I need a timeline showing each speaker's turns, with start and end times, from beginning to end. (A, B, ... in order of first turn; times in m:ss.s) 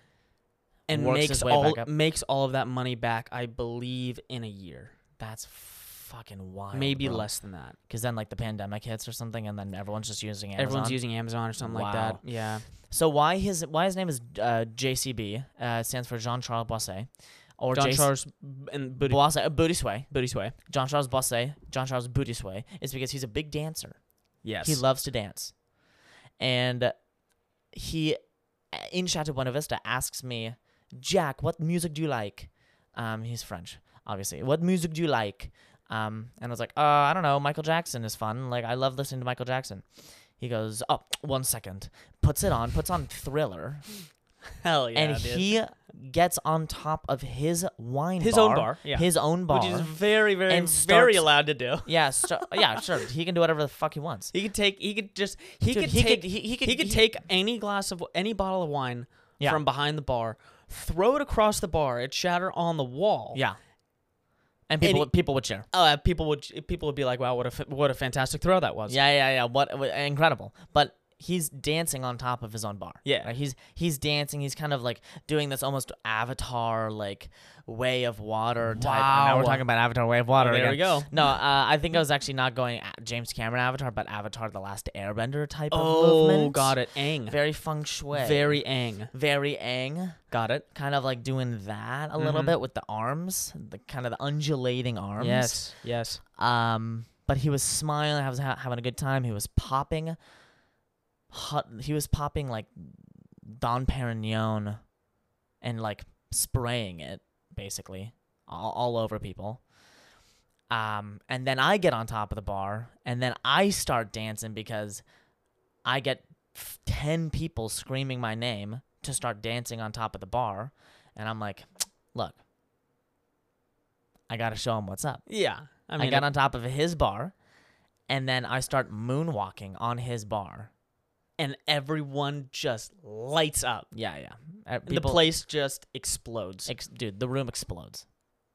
0:00.9-0:01.9 A
0:00.9-0:05.0 B
0:05.2-0:18.3 A
0:06.7-0:07.8 B
0:10.6-0:12.7 B
0:17.7-0:20.5 B
0:19.0-0:25.7 A
0:24.4-0:24.8 B
0:26.4-0:27.1 A
0:27.6-0:44.0 A
0:44.6-0:45.5 B
0:45.0-0:54.3 A
0:48.2-0:52.6 B
0:54.3-1:03.4 B
0:55.7-0:57.1 A
1:03.3-1:03.6 A
1:04.7-1:05.7 A
1:04.8-1:09.0 B
1:08.9-1:40.4 A
1:13.0-1:13.3 B
1:18.8-1:19.7 B
1:20.3-1:21.1 B
1:25.7-1:29.1 B
1:30.3-1:30.6 B
1:32.2-1:32.6 B
1:35.2-1:36.2 B
1:41.3-1:44.9 A
1:45.6-1:49.7 A
1:50.7-1:55.0 A
1:55.8-2:02.4 A
2:04.3-2:05.3 A
2:05.3-2:06.3 B
2:06.0-2:07.4 A
2:08.1-2:10.7 A
2:11.4-2:13.9 B
2:13.9-2:15.3 A
2:14.9-2:16.7 B
2:16.7-2:18.1 A